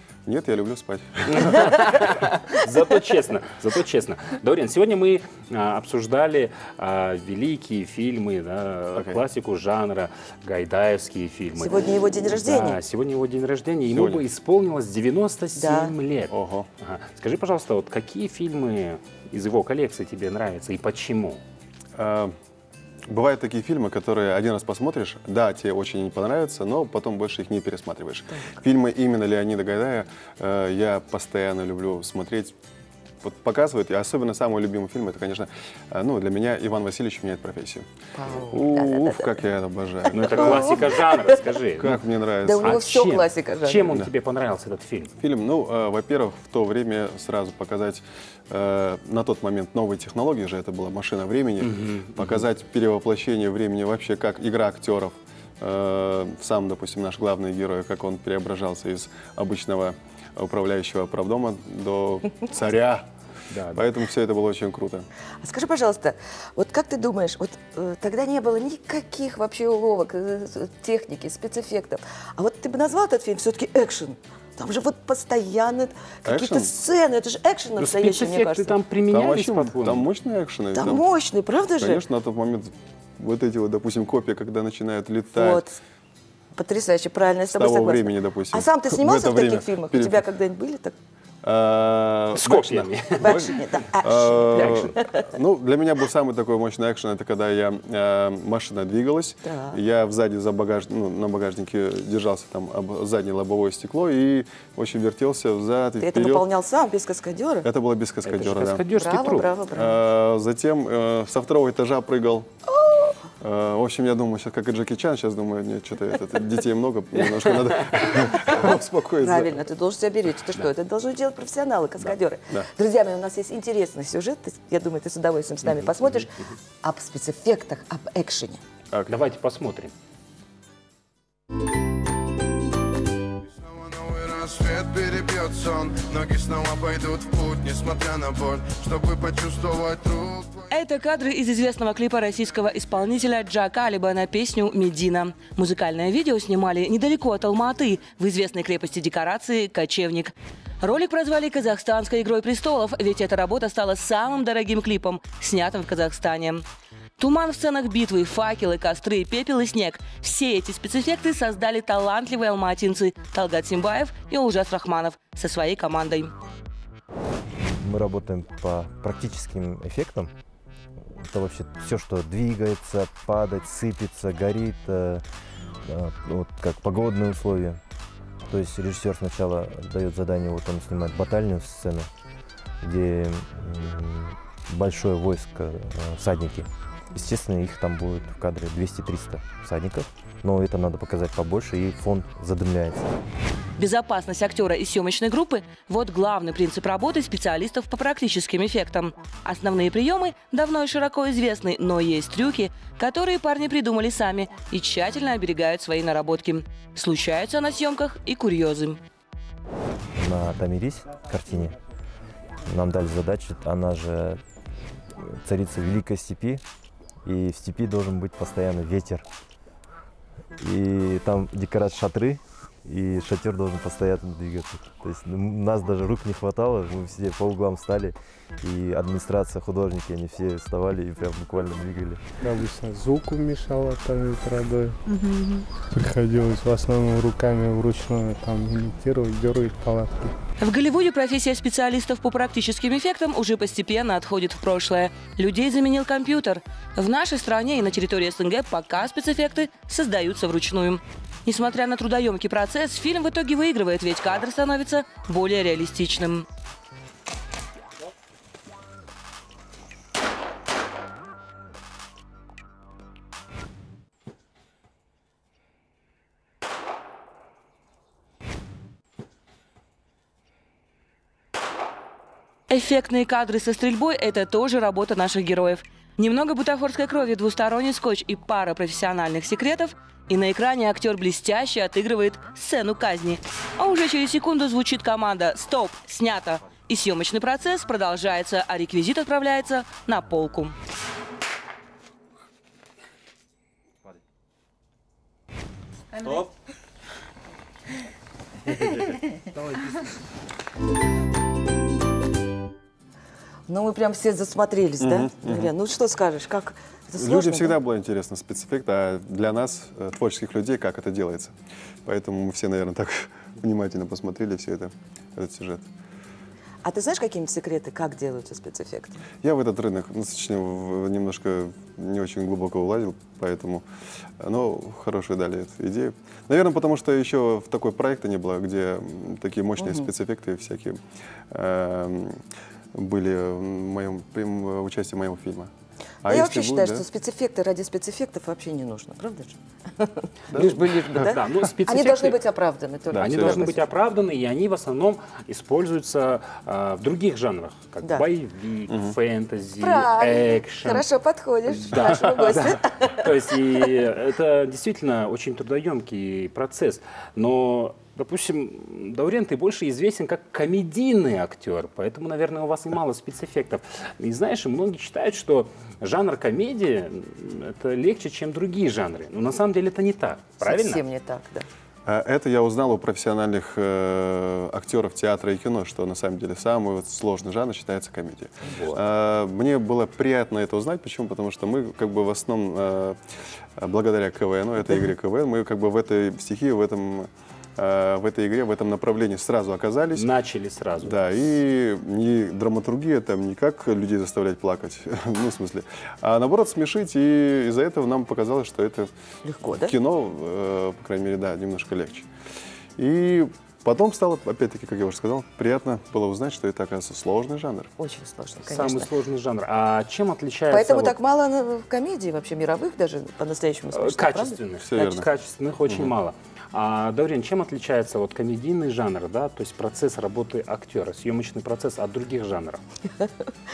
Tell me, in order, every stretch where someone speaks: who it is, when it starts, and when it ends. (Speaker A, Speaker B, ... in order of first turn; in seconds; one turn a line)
Speaker A: 0.2-1.5
Speaker B: 1.4-21.4
Speaker C: 11.6-12.8
Speaker A: 13.9-14.2
Speaker C: 15.6-15.9
Speaker A: 16.3-16.7
Speaker A: 21.9-22.3
Speaker A: 23.1-32.5
Speaker C: 28.3-28.6
Speaker A: 33.2-37.9
Speaker C: 38.1-39.3
Speaker A: 38.5-40.6
Speaker B: 40.1-42.0
Speaker C: 40.4-40.8
Speaker A: 41.8-42.7
Speaker C: 42.4-43.9
Speaker B: 42.6-45.1
Speaker A: 45.2-63.1
Speaker B: 51.6-52.5
Speaker B: 63.5-63.8
Speaker A: 63.7-65.1
Speaker C: 65.4-78.8
Speaker A: 76.2-76.7
Speaker B: 77.8-80.1
Speaker A: 79.1-81.0
Speaker C: 80.7-82.0
Speaker A: 81.8-85.6
Speaker C: 85.3-85.8
Speaker C: 86.5-91.0
Speaker A: 87.5-90.2
Speaker A: 91.4-106.4
Speaker B: 92.3-93.5
Speaker C: 93.2-95.3
Speaker B: 94.5-94.9
Speaker C: 99.4-99.8
Speaker C: 106.0-107.7
Speaker A: 107.6-108.8
Speaker B: 108.2-109.5
Speaker C: 108.9-110.0
Speaker A: 109.7-112.5
Speaker C: 112.8-113.2
Speaker A: 113.4-119.5
Speaker B: 117.3-118.0
Speaker C: 118.3-118.6
Speaker C: 119.2-126.3
Speaker B: 125.7-126.3
Speaker C: 126.8-128.6
Speaker B: 129.1-129.9
Speaker D: 134.0-138.1
Speaker E: 140.7-156.6
Speaker E: 157.2-166.3
Speaker F: 167.6-170.3
Speaker F: 171.1-175.3
Speaker F: 175.8-177.8
Speaker F: 178.5-182.1
Speaker F: 182.8-193.2
Speaker E: 193.8-209.0
Speaker F: 210.1-211.8
Speaker F: 212.6-214.4
Speaker F: 215.2-216.6
Speaker F: 217.2-219.3
Speaker F: 220.6-232.2
Speaker G: 232.4-240.4
Speaker E: 240.6-256.4
Speaker E: 272.7-290.7
Speaker C: 303.7-307.8
Speaker A: 305.0-305.7
Speaker A: 307.2-311.5
Speaker A: 312.0-315.9
Speaker C: 316.8-319.2
Speaker A: 319.4-323.8
Speaker A: 324.4-331.0
Speaker C: 329.8-330.1
Speaker A: 331.5-332.4
Speaker A: 332.9-335.7
Speaker A: 336.2-337.1
Speaker C: 336.2-343.8
Speaker A: 340.5-341.0
Speaker B: 340.5-342.4
Speaker A: 343.1-343.6
Speaker B: 343.1-351.1
Speaker C: 349.8-353.2
Speaker B: 351.8-371.0
Speaker C: 370.6-371.7
Speaker A: 372.1-383.2
Speaker B: 378.7-379.0
Speaker A: 383.8-390.3
Speaker B: 390.1-391.2
Speaker A: 391.0-399.1
Speaker C: 399.4-399.9
Speaker A: 399.8-402.3
Speaker A: 403.0-407.9
Speaker C: 408.0-409.1
Speaker B: 408.6-411.1
Speaker C: 410.7-414.6
Speaker B: 413.9-422.8
Speaker A: 414.8-415.3